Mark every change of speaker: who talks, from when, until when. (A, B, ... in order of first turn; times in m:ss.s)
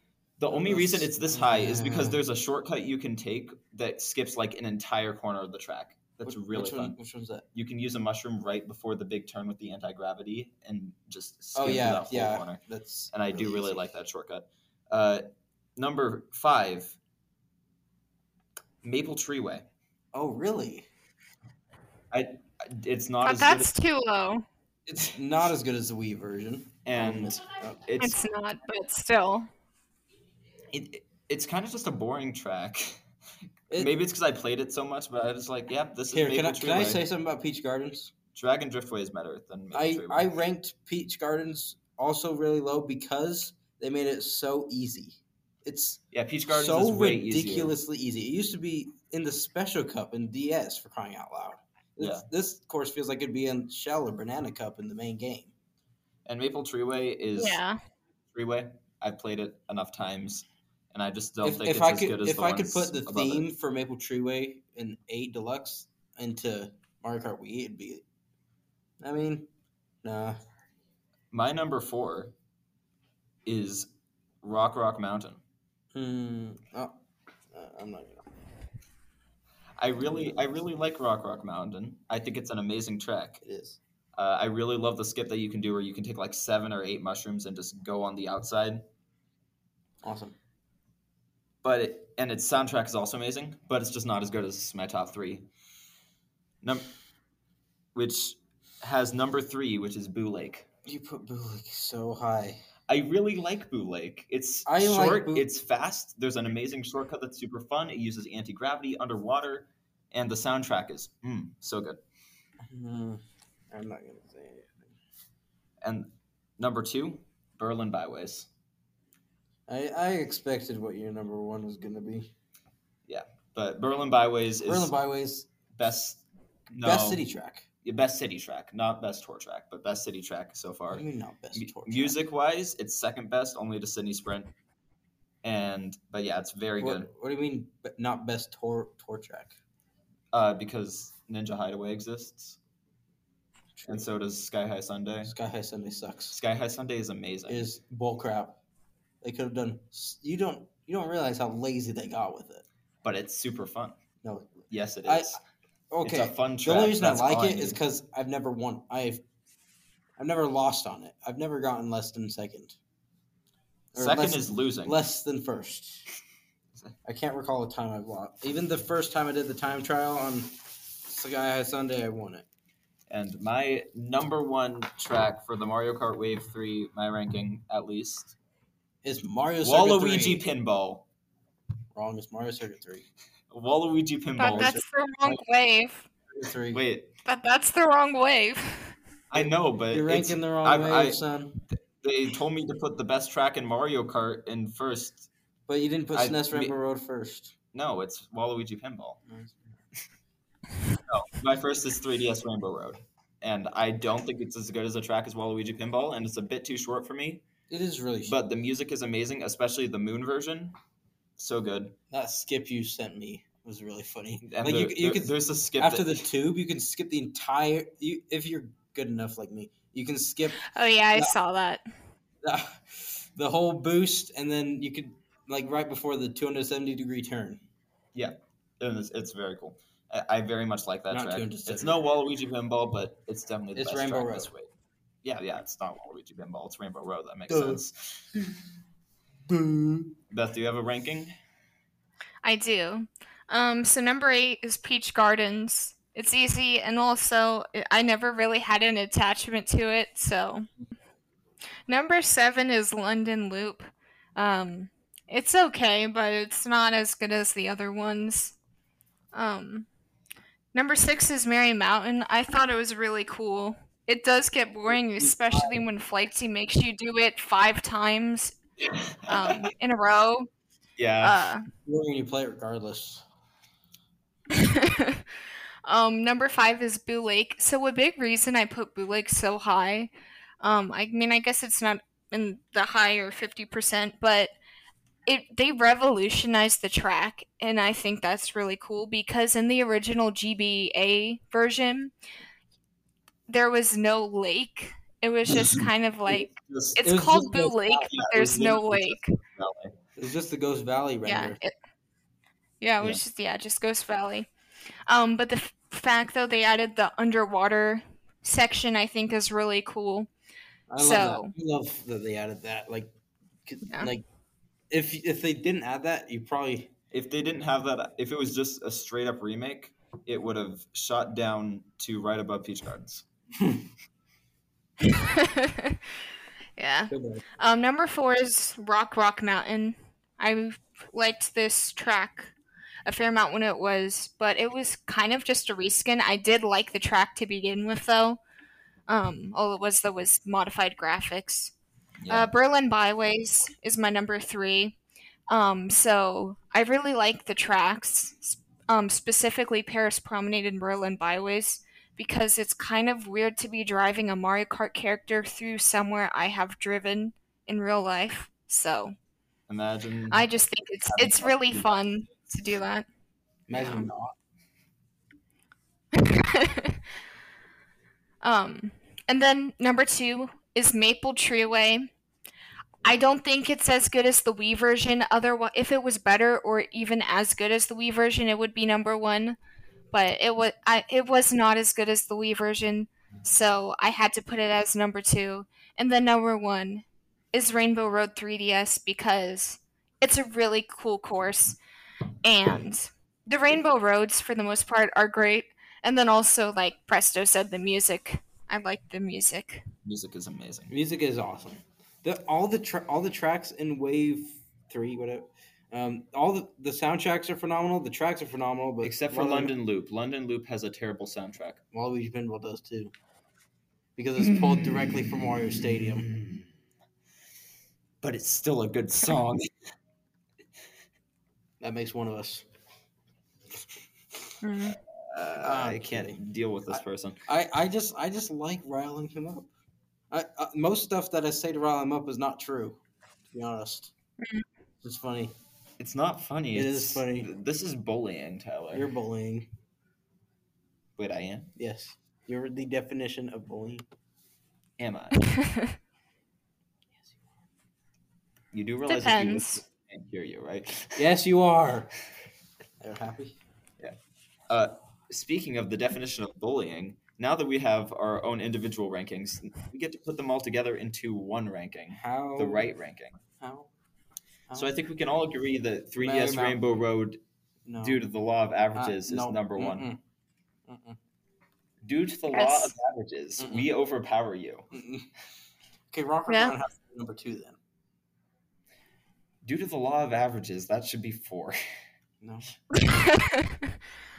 0:00.4-0:07.0 A
0:00.5-0:02.2 B
0:06.2-0:07.4 B
0:07.5-0:12.6 A
0:11.5-0:13.9 B
0:13.1-0:17.0 A
0:18.8-0:19.7 A
0:20.1-0:20.9 B
0:22.1-0:23.7 A
0:23.2-0:24.4 C
0:24.9-0:27.8 B
0:26.8-0:28.2 A
0:28.0-0:29.5 C
0:30.7-0:33.0 A
0:33.8-0:37.0 A
0:36.1-0:38.1 B
0:38.4-0:40.3 A
0:39.7-0:55.5 B
0:46.1-0:47.8 A
0:52.0-0:52.3 A
0:56.3-0:57.6 A
0:57.4-0:57.8 C
0:58.3-1:03.5 A
1:01.4-1:08.0 B
1:09.0-1:09.5 B
1:10.0-1:10.4 B
1:11.3-1:12.3 A
1:13.5-1:13.9 A
1:14.4-1:15.4 A
1:15.9-1:17.0 B
1:17.5-1:18.3 B
1:19.8-1:23.4 A
1:20.0-1:20.4 B
1:23.4-1:23.8 B
1:24.2-1:28.8 A
1:30.0-1:30.4 B
1:31.6-1:35.5 A
1:36.6-1:36.9 A
1:38.0-1:40.7 A
1:40.9-1:42.6 B
1:42.9-1:52.0 A
1:44.7-1:45.5 B
1:52.6-1:54.9 B
1:55.8-1:58.5 A
1:59.7-2:02.3 B
2:03.1-2:04.9 A
2:04.6-2:05.5 B
2:05.8-2:07.2 A
2:06.8-2:07.7 B
2:07.8-2:14.5 A
2:10.9-2:12.2 B
2:15.4-2:17.1 A
2:16.8-2:19.6 B
2:20.3-2:22.6 A
2:23.8-2:24.1 B
2:23.9-2:25.3 A
2:25.2-2:26.4 B
2:26.3-2:27.7 A
2:27.5-2:28.6 B
2:29.2-2:32.7 B
2:33.0-2:34.0 A
2:34.2-2:35.4 B
2:34.7-2:35.4 A
2:35.9-2:39.2 B
2:36.0-2:37.8 A
2:40.2-2:42.8 B
2:43.9-2:46.1 B
2:44.0-2:45.0 A
2:47.0-2:52.5 B
2:53.1-2:58.3 A
2:59.0-3:00.4 B
2:59.6-3:01.0 A
3:01.9-3:03.1 B
3:03.5-3:04.8 A
3:04.4-3:06.1 C
3:06.3-3:06.8 B
3:06.7-3:07.1 A
3:07.2-3:09.0 C
3:09.3-3:15.3 A
3:09.3-3:11.6 B
3:15.7-3:17.6 B
3:16.1-3:16.7 A
3:17.7-3:19.2 A
3:19.3-3:19.8 B
3:21.0-3:27.4 A
3:27.7-3:28.4 B
3:28.3-3:30.8 A
3:31.4-3:32.0 A
3:32.1-3:41.4 B
3:34.4-3:36.2 A
3:40.6-3:41.8 C
3:42.4-3:47.6 B
3:48.1-3:54.7 A
3:51.1-3:52.0 B
3:53.8-3:54.5 B
3:55.2-3:58.3 A
3:57.5-3:57.8 B
3:59.5-4:00.1 B
4:00.3-4:01.3 A
4:02.4-4:10.7 C
4:11.9-4:18.6 C
4:19.3-4:19.9 C
4:20.7-4:28.5 C
4:25.2-4:25.8 B
4:28.9-4:29.7 A
4:29.3-4:30.5 C
4:31.0-4:31.4 A
4:31.2-4:31.7 C
4:31.8-4:33.2 B
4:34.5-4:35.2 C
4:35.8-4:44.5 C
4:45.3-4:52.1 C
4:53.5-4:59.4 C
4:56.6-4:57.0 A
4:57.0-4:58.1 B
4:58.1-5:00.0 A
5:00.2-5:01.6 B
5:01.3-5:01.7 C
5:02.8-5:04.5 C
5:05.1-5:10.3 C
5:10.9-5:13.1 B
5:11.0-5:11.5 C
5:13.7-5:14.2 B
5:14.9-5:16.9 B
5:17.1-5:23.2 A
5:23.6-5:23.8 B
5:25.0-5:26.0 C
5:26.8-5:32.5 C
5:27.1-5:27.4 B
5:33.1-5:38.4 C
5:39.1-5:41.7 C
5:42.2-5:42.5 A
5:42.3-5:45.0 C
5:45.5-5:59.1 C
5:59.7-6:00.5 A
6:00.3-6:03.1 C
6:01.1-6:02.0 A
6:03.7-6:04.4 B
6:03.7-6:04.1 C
6:06.1-6:07.0 C
6:08.4-6:12.1 C
6:13.0-6:19.6 C
6:20.1-6:31.8 C
6:32.4-6:39.8 C
6:40.0-6:40.9 A
6:40.9-6:49.7 B
6:49.0-6:51.8 A
6:51.9-6:53.1 B
6:54.2-6:56.3 B
6:58.2-6:59.7 A
7:01.8-7:02.6 B
7:04.6-7:05.0 C
7:05.3-7:07.4 A
7:05.6-7:06.4 B
7:07.5-7:09.7 B
7:10.3-7:13.0 B
7:13.5-7:14.1 B
7:15.0-7:15.5 B
7:16.0-7:19.1 A
7:16.7-7:17.5 B
7:18.9-7:19.7 B
7:21.2-7:21.7 A
7:21.8-7:24.0 B
7:25.0-7:25.4 A
7:25.5-7:25.9 C
7:28.7-7:31.2 A
7:29.1-7:29.8 C
7:31.2-7:32.1 B
7:33.0-7:33.6 B
7:34.7-7:43.4 A
7:42.1-7:42.9 B
7:43.6-7:43.9 B
7:44.7-7:44.9 B
7:44.8-7:47.4 A
7:46.2-7:46.8 B
7:47.9-7:48.2 B
7:48.0-7:50.1 A
7:49.0-7:50.2 B
7:50.9-7:51.2 B
7:52.0-7:54.9 A
7:52.5-7:52.9 C
7:53.6-7:53.9 B
7:54.9-7:55.3 B
7:56.1-7:57.8 B
7:56.5-7:56.8 C
7:59.6-8:01.8 A
8:02.4-8:02.7 B
8:02.9-8:04.0 C